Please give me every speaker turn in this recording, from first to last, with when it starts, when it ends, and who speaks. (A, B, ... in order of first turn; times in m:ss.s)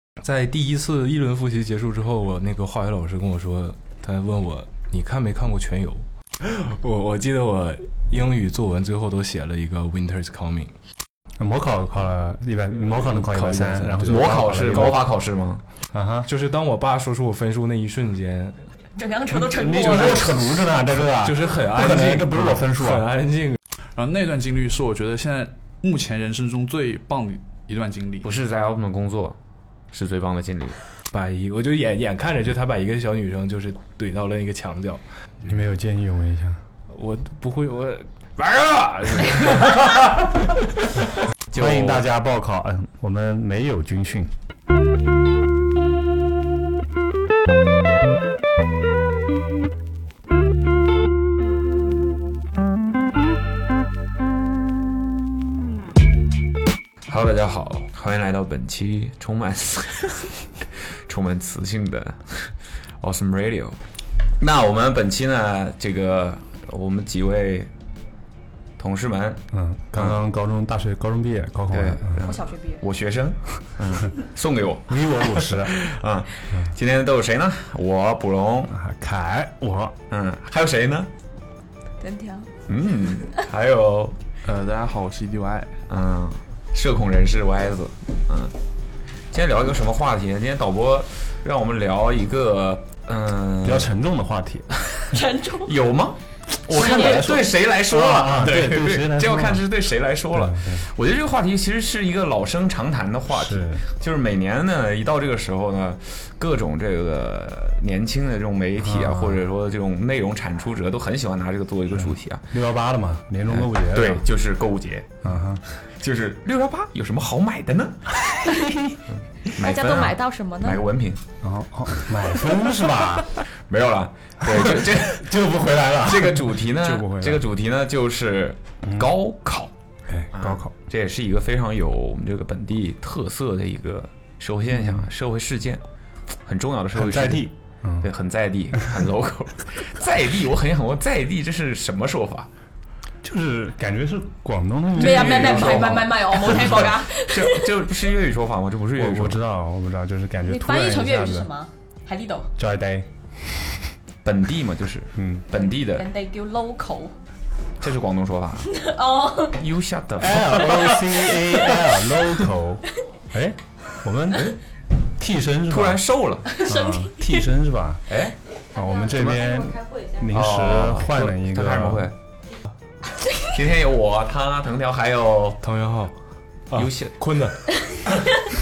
0:00.2-0:10.7 A
0:11.4-0:15.0 B
0:13.0-0:15.0 A
0:14.1-0:15.6 C
0:15.9-0:16.3 B
0:16.2-0:18.6 A
0:19.0-0:20.3 D
0:19.3-0:23.1 B
0:21.2-0:23.6 A
0:24.0-0:28.3 E
0:28.2-0:29.4 C
0:29.9-0:30.8 C
0:31.1-0:35.0 A
0:35.4-0:36.6 B
0:36.9-0:39.7 A
0:39.3-0:39.7 C
0:41.5-0:42.0 C
0:41.5-0:44.3 B
0:57.1-1:00.3 C
1:01.1-1:03.8 C
1:04.4-1:07.7 C
1:08.8-1:09.4 C
1:09.5-1:12.3 B
1:11.7-1:18.7 C
1:12.2-1:12.8 D
1:14.9-1:15.9 B
1:18.7-1:20.0 B
1:20.1-1:21.1 C
1:22.0-1:22.5 D
1:22.7-1:24.2 C
1:24.4-1:25.8 E
1:25.9-1:28.5 C
1:29.3-1:33.9 C
1:33.6-1:34.7 B
1:35.1-1:35.7 D
1:35.6-1:52.4 C
1:36.5-1:39.7 B
1:36.7-1:37.4 D
1:40.3-1:40.9 B
1:43.3-1:43.8 B
1:48.8-1:49.4 B
1:51.9-1:54.2 B
1:53.5-1:55.2 C
1:55.2-1:55.6 B
1:56.0-1:58.2 C
1:59.5-2:01.2 C
1:59.6-2:00.8 D
2:01.4-2:03.4 B
2:03.7-2:05.4 C
2:04.4-2:07.4 B
2:05.9-2:09.7 C
2:10.1-2:10.7 B
2:10.3-2:15.8 C
2:16.4-2:22.5 C
2:16.9-2:18.1 B
2:23.2-2:26.8 B
2:25.0-2:27.7 D
2:25.0-2:29.4 C
2:28.9-2:31.5 B
2:30.4-2:32.5 D
2:32.6-2:33.7 B
2:34.2-2:36.1 C
2:35.1-2:35.4 B
2:35.5-2:37.1 D
2:37.8-2:38.7 C
2:38.7-2:39.6 D
2:39.5-2:40.7 C
2:40.2-2:44.6 B
2:45.2-2:46.0 B
2:45.7-2:46.5 C
2:46.5-2:47.5 D
2:46.6-2:48.0 B
2:48.1-2:48.4 C
2:48.7-2:52.1 B
2:49.1-2:49.5 C
2:50.3-2:52.1 C
2:53.4-2:55.6 C
2:55.6-2:56.1 A
2:56.7-2:57.7 A
2:56.7-2:57.1 C